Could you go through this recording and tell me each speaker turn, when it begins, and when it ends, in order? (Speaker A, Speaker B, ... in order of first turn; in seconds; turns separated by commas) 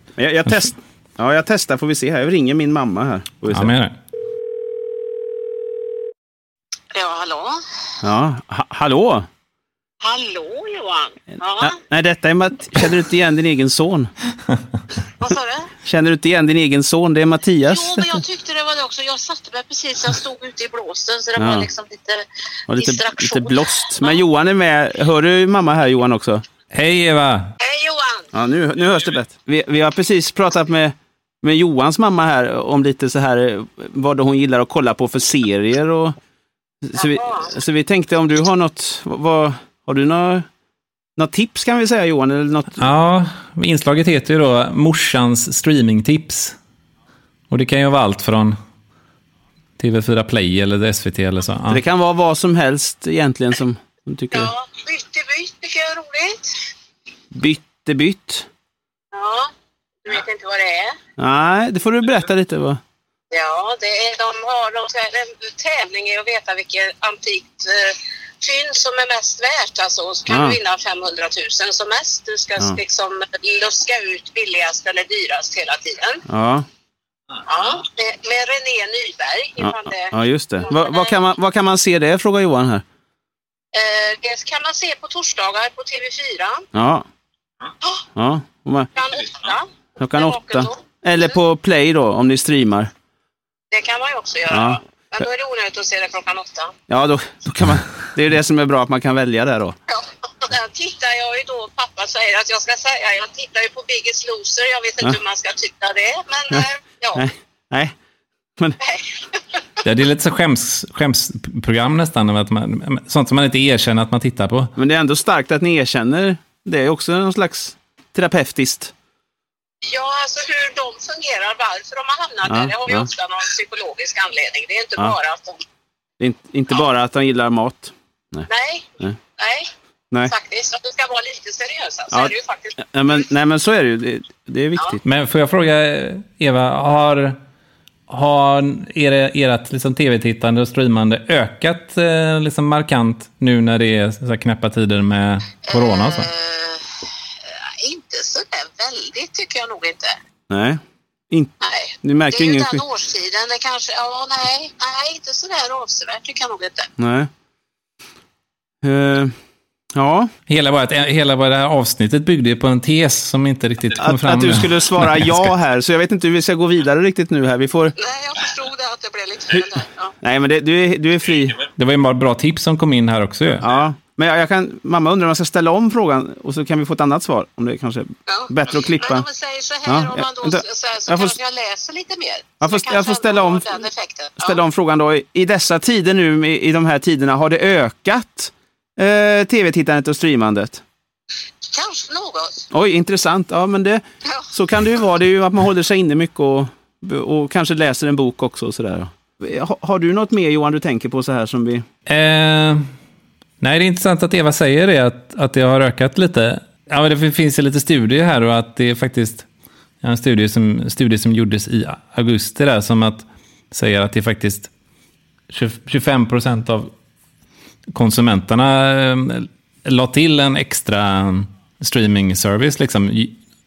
Speaker A: 0.2-3.7, Speaker B: 3.5-4.0, Speaker C: 6.9-7.6, Speaker A: 8.0-9.3, Speaker C: 10.0-11.7, Speaker A: 11.6-14.1, Speaker C: 15.2-15.7, Speaker A: 15.8-18.2, Speaker C: 17.7-22.2, Speaker A: 21.4-21.7, Speaker A: 22.7-26.4, Speaker C: 22.7-24.1, Speaker B: 26.7-27.5, Speaker C: 27.6-28.3, Speaker A: 28.3-36.1, Speaker A: 36.8-40.5, Speaker C: 37.0-37.5, Speaker A: 41.2-42.9, Speaker B: 42.8-46.6, Speaker B: 47.5-48.6, Speaker B: 49.8-51.8, Speaker A: 51.7-54.5, Speaker C: 54.3-56.5, Speaker A: 57.3-58.5, Speaker C: 59.1-59.5, Speaker C: 60.0-61.0, Speaker A: 61.2-62.8, Speaker C: 63.3-76.2, Speaker A: 70.3-70.6, Speaker A: 76.3-76.7, Speaker C: 77.5-81.2, Speaker A: 79.6-82.8, Speaker C: 83.7-86.7, Speaker A: 86.7-87.0, Speaker A: 88.2-88.9, Speaker C: 88.9-90.8, Speaker A: 90.0-92.9, Speaker C: 93.7-96.7, Speaker A: 94.5-94.8, Speaker A: 96.9-99.8, Speaker C: 99.9-107.2, Speaker A: 106.5-107.9, Speaker C: 108.8-109.6, Speaker B: 109.8-114.7, Speaker A: 114.8-118.9, Speaker C: 119.8-125.6, Speaker A: 122.5-123.1, Speaker A: 126.2-128.5, Speaker C: 128.5-129.7, Speaker C: 130.2-132.8, Speaker A: 132.1-135.0, Speaker B: 135.0-137.4, Speaker B: 138.1-146.3, Speaker C: 145.7-146.8, Speaker C: 147.5-150.2, Speaker A: 150.5-152.8, Speaker C: 151.6-156.9, Speaker A: 157.0-157.3, Speaker A: 158.8-159.3, Speaker A: 159.9-160.3, Speaker B: 160.5-165.5, Speaker A: 164.0-167.9, Speaker C: 168.0-170.1, Speaker A: 170.2-171.7, Speaker B: 171.7-173.7, Speaker A: 173.6-179.2, Speaker C: 178.3-184.6, Speaker A: 179.8-181.3, Speaker A: 182.6-183.8, Speaker A: 184.4-190.8, Speaker C: 191.7-192.7, Speaker A: 192.7-201.8, Speaker B: 202.1-202.8, Speaker B: 203.6-209.5, Speaker B: 210.0-214.7, Speaker B: 215.5-216.9, Speaker B: 217.9-223.4